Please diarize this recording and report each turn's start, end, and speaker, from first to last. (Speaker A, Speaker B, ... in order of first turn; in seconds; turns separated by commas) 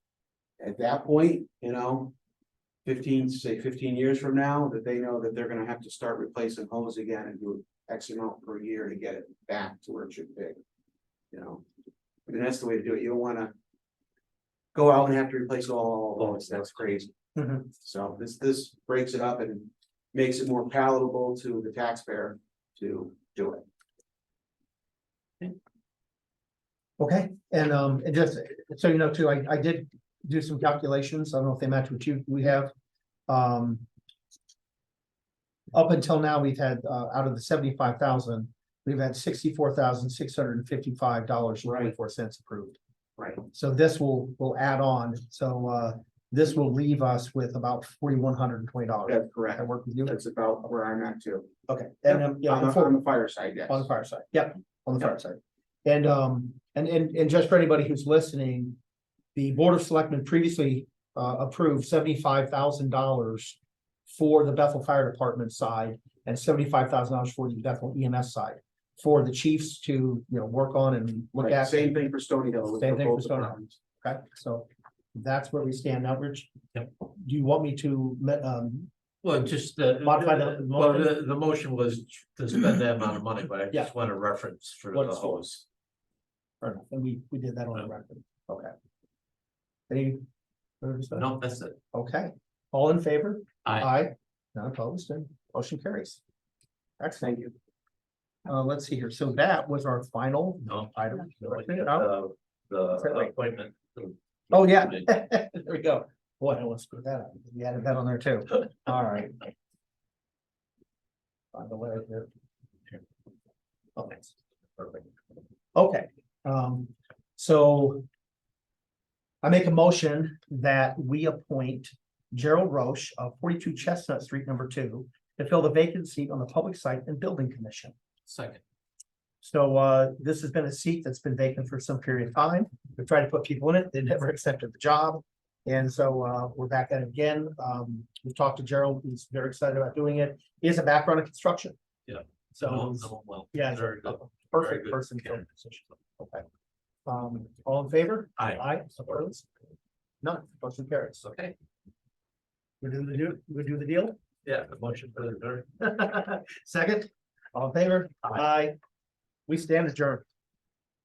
Speaker A: 0.6-2.1, Speaker A: 2.9-10.6, Speaker A: 11.3-11.6, Speaker A: 12.3-13.5, Speaker A: 14.7-17.1, Speaker B: 17.4-17.7, Speaker A: 17.8-23.6, Speaker B: 27.0-32.7, Speaker B: 33.3-33.9, Speaker B: 35.7-42.8, Speaker A: 41.7-41.9, Speaker A: 43.2-43.4, Speaker B: 43.5-50.1, Speaker A: 49.1-51.5, Speaker B: 51.7-53.0, Speaker A: 52.1-53.9, Speaker B: 53.7-58.8, Speaker B: 59.4-72.0, Speaker A: 71.4-73.8, Speaker B: 72.7-78.9, Speaker C: 79.2-85.6, Speaker B: 80.0-81.1, Speaker B: 84.9-85.5, Speaker B: 86.6-88.7, Speaker B: 89.9-90.2, Speaker B: 90.8-91.3, Speaker C: 91.1-91.8, Speaker B: 91.9-96.2, Speaker B: 97.0-97.3, Speaker A: 97.2-97.5, Speaker B: 98.5-102.1, Speaker C: 100.7-105.0, Speaker B: 103.0-103.3, Speaker B: 104.5-109.5, Speaker B: 111.5-112.3, Speaker B: 114.0-115.0, Speaker B: 115.8-118.0, Speaker B: 119.4-128.0, Speaker C: 128.3-128.6, Speaker B: 129.4-141.8, Speaker C: 142.1-145.7, Speaker B: 142.6-146.4, Speaker B: 147.1-149.4, Speaker C: 148.4-149.3, Speaker B: 150.2-151.2, Speaker C: 151.2-151.6, Speaker B: 152.8-154.2, Speaker C: 154.4-155.7, Speaker B: 155.8-158.8, Speaker B: 159.5-160.2